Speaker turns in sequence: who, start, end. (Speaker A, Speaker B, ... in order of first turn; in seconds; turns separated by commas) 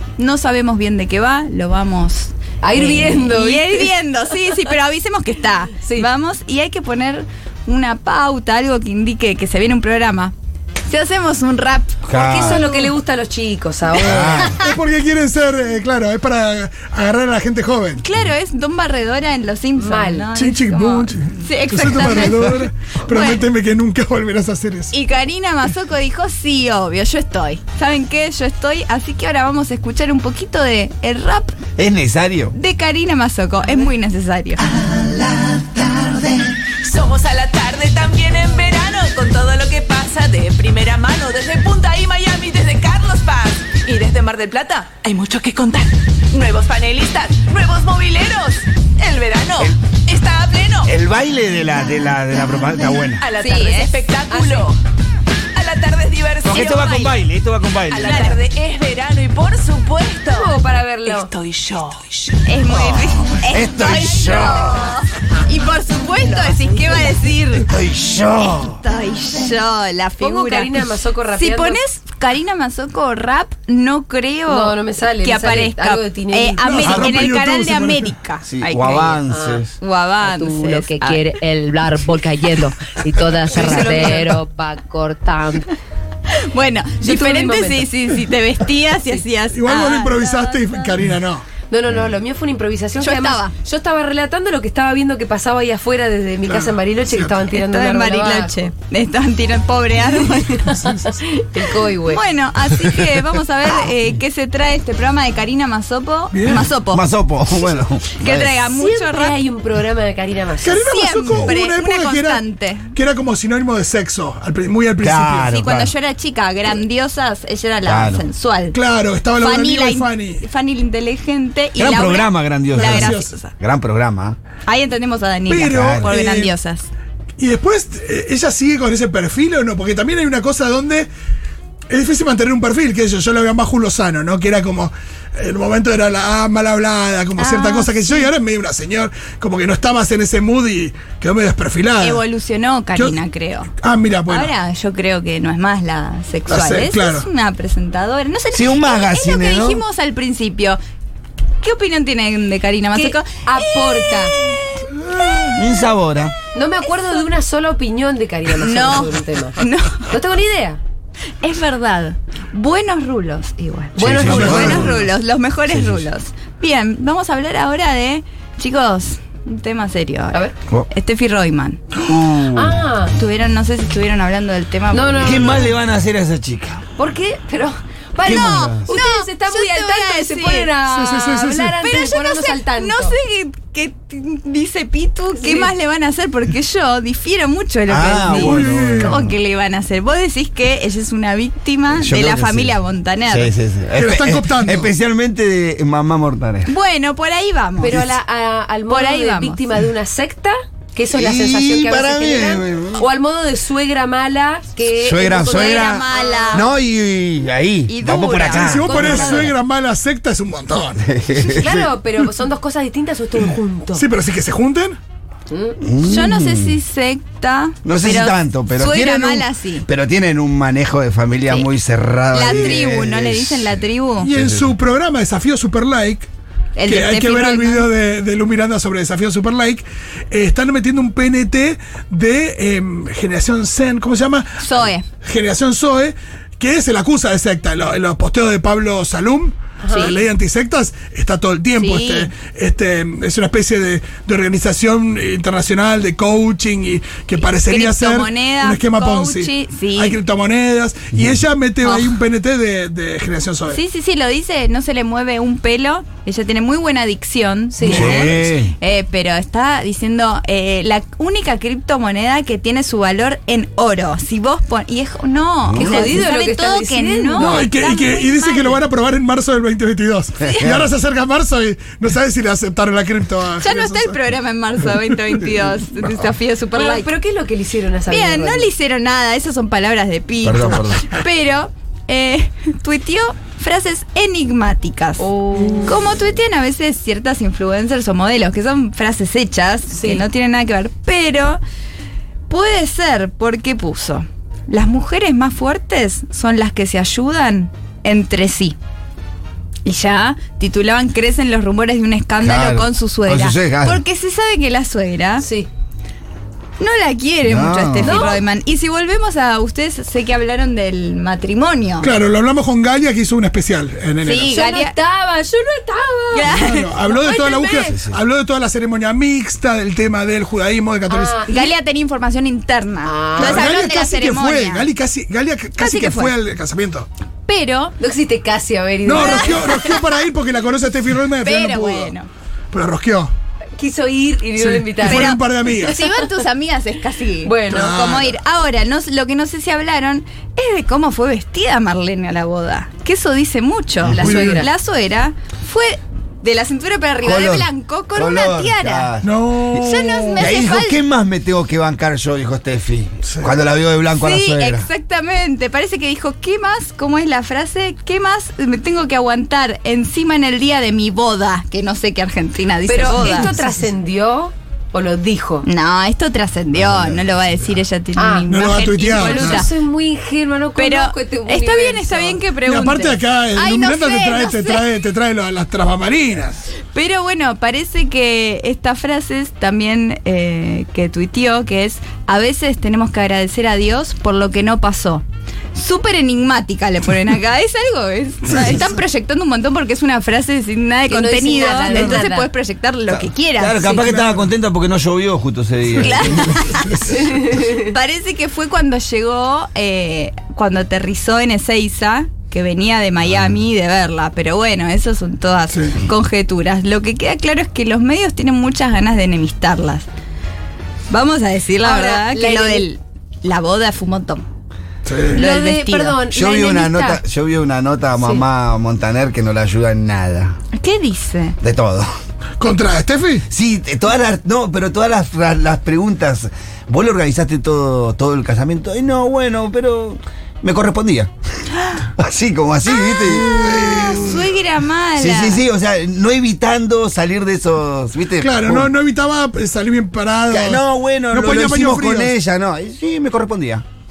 Speaker A: 0.2-10.3, Speaker B: 2.6-3.9, Speaker A: 10.9-12.7, Speaker C: 12.1-12.7, Speaker B: 12.1-14.6, Speaker C: 14.0-14.6, Speaker D: 14.2-18.0, Speaker A: 18.0-23.4, Speaker B: 19.8-20.3, Speaker D: 20.3-24.9, Speaker A: 24.9-31.6, Speaker C: 31.8-32.5, Speaker A: 32.5-34.6, Speaker C: 34.6-36.5, Speaker E: 36.8-50.9, Speaker C: 50.8-53.2, Speaker B: 53.2-54.7, Speaker E: 53.2-54.8, Speaker A: 53.4-54.0, Speaker E: 55.5-57.1, Speaker C: 56.4-58.2, Speaker A: 56.5-57.0, Speaker E: 57.9-62.4, Speaker A: 57.9-58.4, Speaker B: 60.3-61.3, Speaker A: 62.5-67.8, Speaker C: 63.5-65.0, Speaker B: 66.6-66.9, Speaker C: 67.6-68.8, Speaker A: 68.5-79.2, Speaker B: 70.2-71.8, Speaker B: 74.5-77.1, Speaker D: 76.6-78.1, Speaker C: 78.5-79.7, Speaker B: 79.3-79.6, Speaker A: 79.8-81.4, Speaker B: 80.2-81.4, Speaker F: 80.8-82.1, Speaker B: 82.4-85.7, Speaker F: 83.0-84.5, Speaker A: 83.4-84.4, Speaker A: 86.3-91.0, Speaker B: 87.0-87.9, Speaker D: 89.5-91.5, Speaker B: 91.7-98.7, Speaker A: 93.0-93.5, Speaker D: 96.4-97.5, Speaker A: 97.5-100.9, Speaker B: 100.3-102.2, Speaker D: 100.8-101.1, Speaker A: 102.1-107.0, Speaker D: 106.3-106.7, Speaker C: 106.9-108.5, Speaker A: 108.1-109.3, Speaker B: 108.7-110.9, Speaker D: 110.6-115.5, Speaker A: 110.8-112.9, Speaker C: 115.0-115.9, Speaker A: 115.5-118.8, Speaker C: 117.8-118.2, Speaker D: 118.7-120.4, Speaker A: 119.4-123.5, Speaker C: 121.8-124.4, Speaker D: 122.7-123.3, Speaker A: 124.7-126.9, Speaker D: 125.5-126.5, Speaker C: 125.7-126.1, Speaker D: 127.4-131.1, Speaker D: 131.9-142.2, Speaker A: 137.4-138.3, Speaker A: 142.0-143.7, Speaker D: 142.9-143.2, Speaker D: 143.8-144.5, Speaker A: 144.3-150.8, Speaker D: 146.5-147.3, Speaker C: 148.5-149.8, Speaker A: 151.6-155.7, Speaker B: 152.9-154.3, Speaker C: 155.4-156.3, Speaker B: 156.5-160.8, Speaker A: 158.6-160.1, Speaker A: 161.4-171.8, Speaker C: 164.0-165.0, Speaker B: 164.1-164.6, Speaker D: 164.2-165.0, Speaker C: 165.7-166.1, Speaker C: 172.0-172.8, Speaker B: 172.5-173.1, Speaker A: 173.2-175.6, Speaker B: 174.9-175.7, Speaker C: 175.2-176.8, Speaker B: 177.0-183.2, Speaker C: 178.2-178.9, Speaker A: 178.2-180.7, Speaker D: 180.9-181.8, Speaker A: 181.8-193.5, Speaker B: 185.4-185.7, Speaker C: 187.9-189.3, Speaker D: 188.2-189.2, Speaker C: 192.0-192.8, Speaker C: 193.3-196.7, Speaker D: 193.9-194.9, Speaker A: 196.7-198.0, Speaker B: 197.8-206.7, Speaker A: 198.9-199.7, Speaker C: 201.1-203.0, Speaker C: 205.0-209.5, Speaker A: 205.4-206.7, Speaker A: 207.9-209.5, Speaker D: 208.1-211.0, Speaker C: 211.0-211.9, Speaker B: 211.5-214.1, Speaker D: 213.9-215.0, Speaker B: 215.5-215.8, Speaker C: 215.8-216.8, Speaker A: 216.0-219.8, Speaker C: 217.8-223.7, Speaker A: 222.3-224.3, Speaker D: 224.2-226.3, Speaker C: 224.3-224.7, Speaker A: 226.8-227.9, Speaker D: 226.8-253.8, Speaker A: 234.6-235.0, Speaker B: 239.8-240.2, Speaker A: 241.8-242.3, Speaker A: 247.4-250.2, Speaker A: 251.8-252.2, Speaker A: 253.7-268.8, Speaker B: 257.7-258.3, Speaker C: 257.8-258.7, Speaker C: 265.6-266.2, Speaker B: 265.7-267.7, Speaker D: 267.4-274.2, Speaker C: 270.4-270.9, Speaker A: 273.6-277.1, Speaker B: 276.7-278.7, Speaker A: 278.1-285.2, Speaker C: 280.4-281.1, Speaker B: 285.2-286.1, Speaker A: 285.8-291.6, Speaker B: 289.9-290.2, Speaker A: 292.5-298.8, Speaker A: 299.8-305.4, Speaker C: 302.4-304.0, Speaker B: 305.4-305.7, Speaker A: 306.8-312.1, Speaker C: 307.4-308.3, Speaker B: 308.0-308.4, Speaker D: 312.0-314.5, Speaker A: 314.2-314.9, Speaker B: 314.4-318.0, Speaker A: 316.3-316.9, Speaker D: 316.4-321.5, Speaker C: 317.9-318.2, Speaker B: 321.1-321.7, Speaker A: 321.4-324.9, Speaker B: 323.0-323.7, Speaker D: 323.4-327.1, Speaker A: 325.8-326.3, Speaker A: 327.5-327.9, Speaker B: 328.0-329.9, Speaker D: 329.0-332.1, Speaker A: 329.2-329.9, Speaker A: 331.4-332.3, Speaker D: 332.7-333.3, Speaker B: 333.8-335.4, Speaker D: 334.6-336.0, Speaker A: 335.0-349.1, Speaker B: 337.4-337.9, Speaker D: 337.7-338.4, Speaker B: 344.2-344.7, Speaker D: 344.2-344.6, Speaker C: 347.2-349.8, Speaker D: 349.2-350.5, Speaker A: 349.7-351.0, Speaker C: 350.4-354.9, Speaker D: 353.2-353.5, Speaker A: 354.2-363.6, Speaker B: 362.9-365.6, Speaker A: 365.6-369.7, Speaker C: 366.7-367.2, Speaker B: 368.2-372.4, Speaker D: 368.5-369.7, Speaker A: 370.8-374.8, Speaker D: 372.6-376.6, Speaker A: 376.9-385.2, Speaker A: 385.7-393.8, Speaker D: 388.5-388.8, Speaker B: 391.1-392.5, Speaker D: 391.9-392.2, Speaker C: 393.1-396.6, Speaker B: 393.8-394.1, Speaker D: 393.9-394.5, Speaker A: 395.9-410.1, Speaker D: 396.4-397.4, Speaker B: 397.2-397.8, Speaker D: 405.7-406.0, Speaker A: 411.1-414.4, Speaker B: 411.8-412.9, Speaker D: 415.0-415.4, Speaker B: 415.3-417.2, Speaker A: 415.3-416.2, Speaker C: 416.3-420.5, Speaker B: 418.2-418.4, Speaker A: 420.7-421.6, Speaker C: 421.6-422.1, Speaker D: 422.6-423.4, Speaker C: 423.5-431.3, Speaker A: 431.8-432.1, Speaker C: 432.1-434.2, Speaker A: 432.9-435.6, Speaker D: 433.4-434.4, Speaker C: 435.2-438.9, Speaker D: 438.4-442.3, Speaker C: 440.5-443.8